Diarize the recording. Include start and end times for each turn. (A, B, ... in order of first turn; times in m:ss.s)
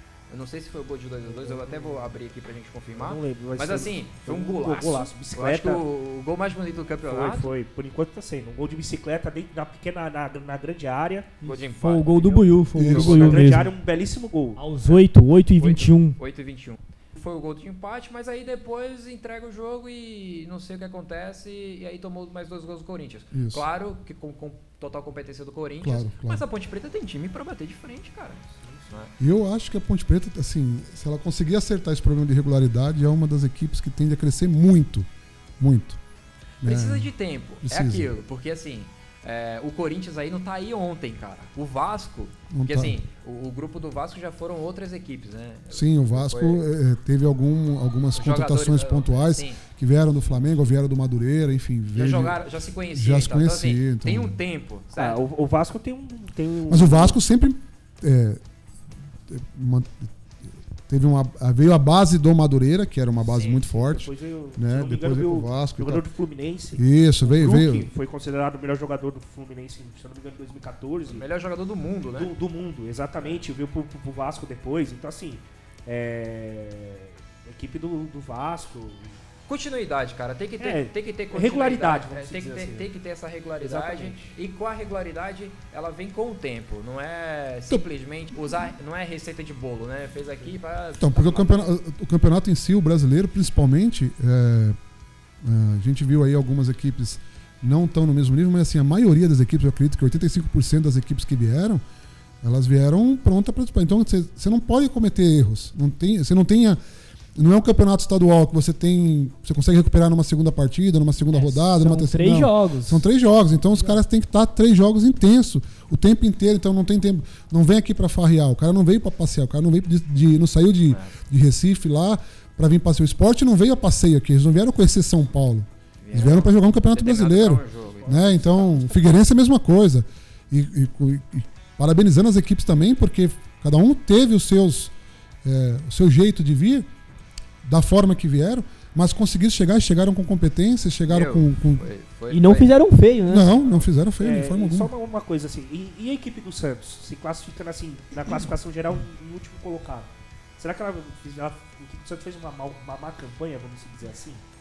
0:00.3-0:07.5 A
0:01.2-0:02.1 B
0:02.9-0:05.8 B
0:07.0-0:11.3 B
0:11.4-0:13.7 C
0:11.4-0:13.4 A
0:12.7-0:13.4 D
0:12.8-0:14.6 B
0:14.6-0:16.2 C
0:15.6-0:29.1 A
0:23.3-0:23.6 D
0:25.8-0:26.4 D
0:28.5-0:29.0 B
0:29.2-0:35.1 D
0:35.6-0:36.0 D
0:36.6-0:37.1 D
0:36.6-0:46.6 A
0:37.6-0:38.1 D
0:42.5-0:43.0 D
0:45.7-0:52.4 D
0:48.1-0:49.6 A
0:51.9-0:55.2 A
0:52.9-0:54.4 D
0:55.0-0:57.2 B
0:56.7-0:58.4 D
0:59.3-1:00.1 D
1:00.9-1:06.0 D
1:03.2-1:03.6 A
1:03.5-1:11.2 B
1:06.8-1:07.9 D
1:11.1-1:12.3 A
1:12.2-1:19.2 B
1:19.5-1:31.7 A
1:20.6-1:22.9 B
1:23.6-1:24.3 B
1:31.0-1:34.8 D
1:35.4-1:41.8 D
1:42.4-1:46.8 D
1:47.3-2:14.9 D
1:51.6-1:53.0 C
2:06.0-2:08.4 A
2:08.0-2:09.1 B
2:15.4-2:16.9 D
2:17.6-2:21.8 D
2:21.1-2:22.7 A
2:22.3-2:23.5 C
2:23.3-2:24.9 D
2:24.2-2:34.4 B